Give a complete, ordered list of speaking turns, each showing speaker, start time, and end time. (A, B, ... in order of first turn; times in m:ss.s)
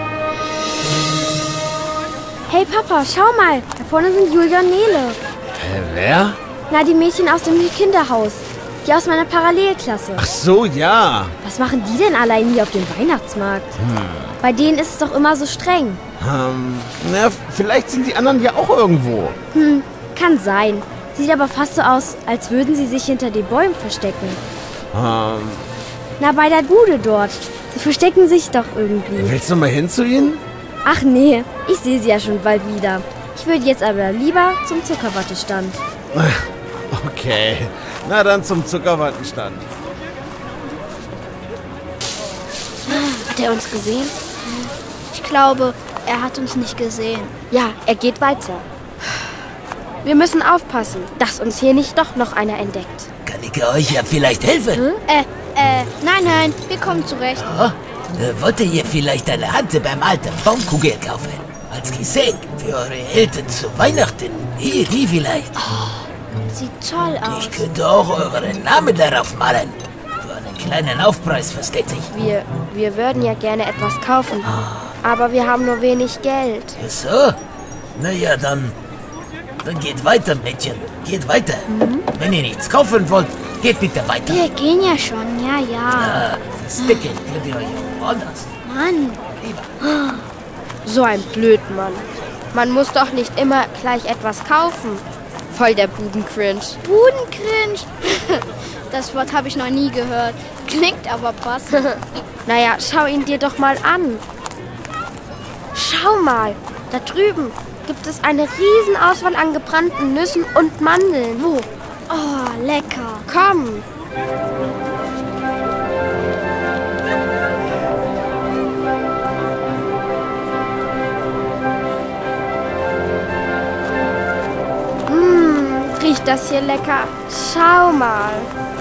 0:02.5-0:05.1 A
0:05.6-0:06.4 B
0:06.7-0:10.2 A
0:10.2-0:11.3 B
0:11.6-0:13.6 A
0:13.8-0:14.4 B
0:14.4-0:16.0 A
0:16.2-0:19.4 B
0:20.2-0:20.5 A
0:21.2-0:24.4 A
0:24.9-0:25.6 B
0:26.2-0:26.9 A
0:27.8-0:29.3 A
0:29.1-0:30.4 B
0:32.4-0:32.8 A
0:33.4-0:35.8 A
0:36.1-0:39.6 B
0:42.9-0:44.1 C
0:45.1-0:47.3 D
0:47.5-0:48.6 C
0:50.0-0:53.1 C
0:53.2-0:54.8 E
0:55.1-0:57.4 D
0:57.4-1:05.6 E
1:06.5-1:07.6 D
1:07.2-1:12.1 E
1:12.1-1:14.5 C
1:15.0-1:16.8 C
1:16.8-1:17.4 E
1:18.0-1:18.7 E
1:19.6-1:24.4 E
1:21.7-1:22.0 C
1:24.3-1:26.2 D
1:25.9-1:28.5 E
1:26.8-1:27.0 D
1:28.6-1:29.2 D
1:29.3-1:29.7 E
1:30.8-1:36.8 C
1:36.8-1:38.4 D
1:38.9-1:41.9 D
1:42.4-1:44.2 C
1:45.7-1:51.5 C
1:53.3-1:53.8 C
2:05.1-2:08.5 C